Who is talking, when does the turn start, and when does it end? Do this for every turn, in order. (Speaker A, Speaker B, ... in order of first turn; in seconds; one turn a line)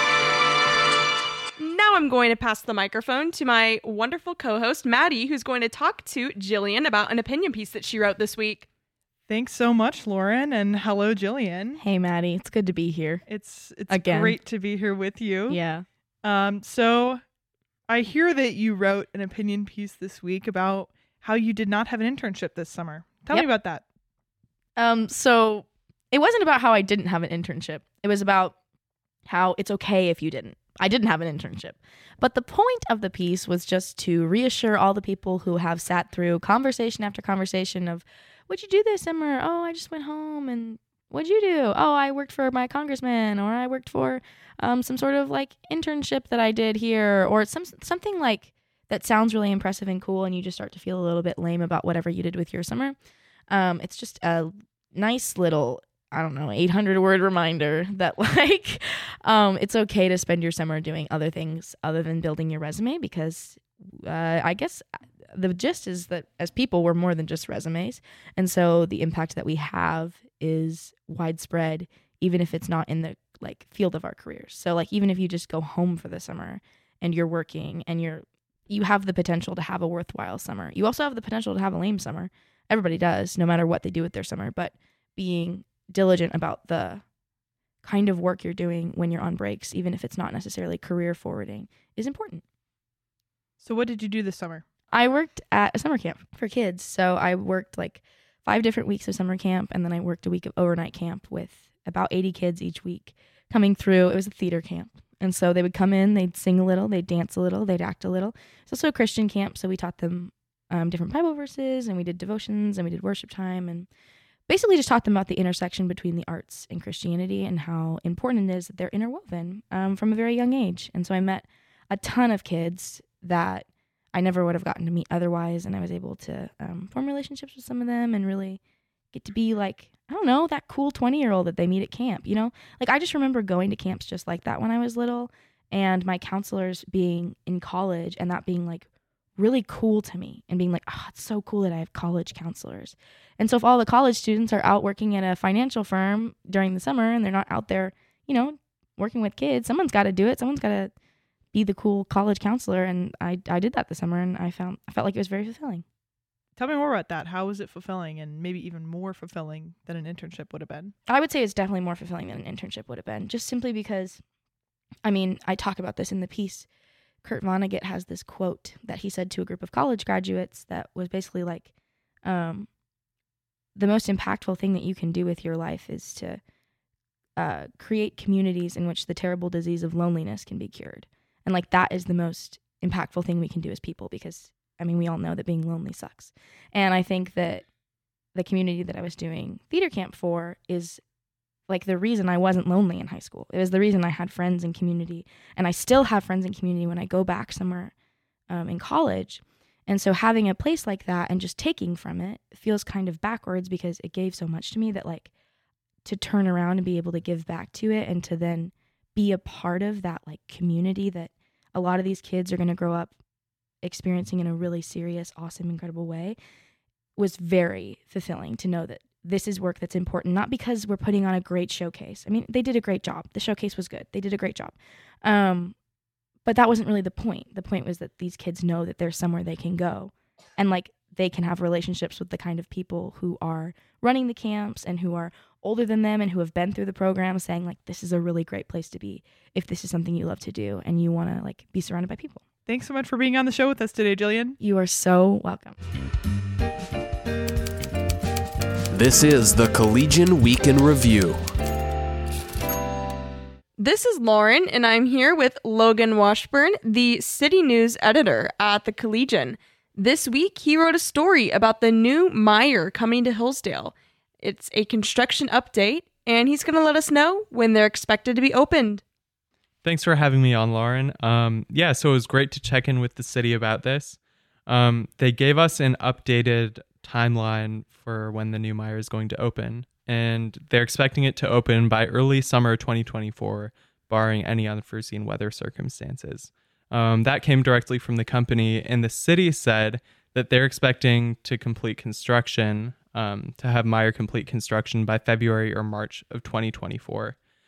Speaker A: 1.6-8.7
Speaker B: 9.3-11.8
Speaker C: 11.8-13.2
Speaker B: 13.2-15.6
Speaker C: 13.9-14.4
Speaker C: 15.5-15.8
Speaker B: 16.2-17.2
Speaker B: 17.9-23.8
Speaker C: 24.8-28.6
Speaker C: 29.3-53.0
Speaker C: 53.5-87.0
Speaker C: 87.8-92.4
Speaker B: 93.6-94.6
Speaker C: 94.9-113.9
Speaker C: 114.5-128.6
Speaker C: 129.1-150.9
Speaker C: 151.5-155.8
Speaker B: 156.6-160.9
Speaker C: 161.1-164.2
Speaker C: 165.1-166.7
Speaker C: 167.2-171.7
Speaker C: 172.2-172.7
Speaker C: 173.8-176.4
Speaker C: 177.4-187.7
Speaker C: 188.3-191.0
Speaker C: 191.7-197.9
Speaker C: 198.5-205.3
Speaker C: 206.1-213.2
Speaker C: 213.8-216.4
Speaker C: 217.2-225.8
Speaker C: 226.4-242.4
Speaker B: 242.7-244.6
Speaker C: 244.6-245.8
Speaker D: 248.9-251.4
Speaker A: 253.8-269.0
Speaker E: 269.8-297.4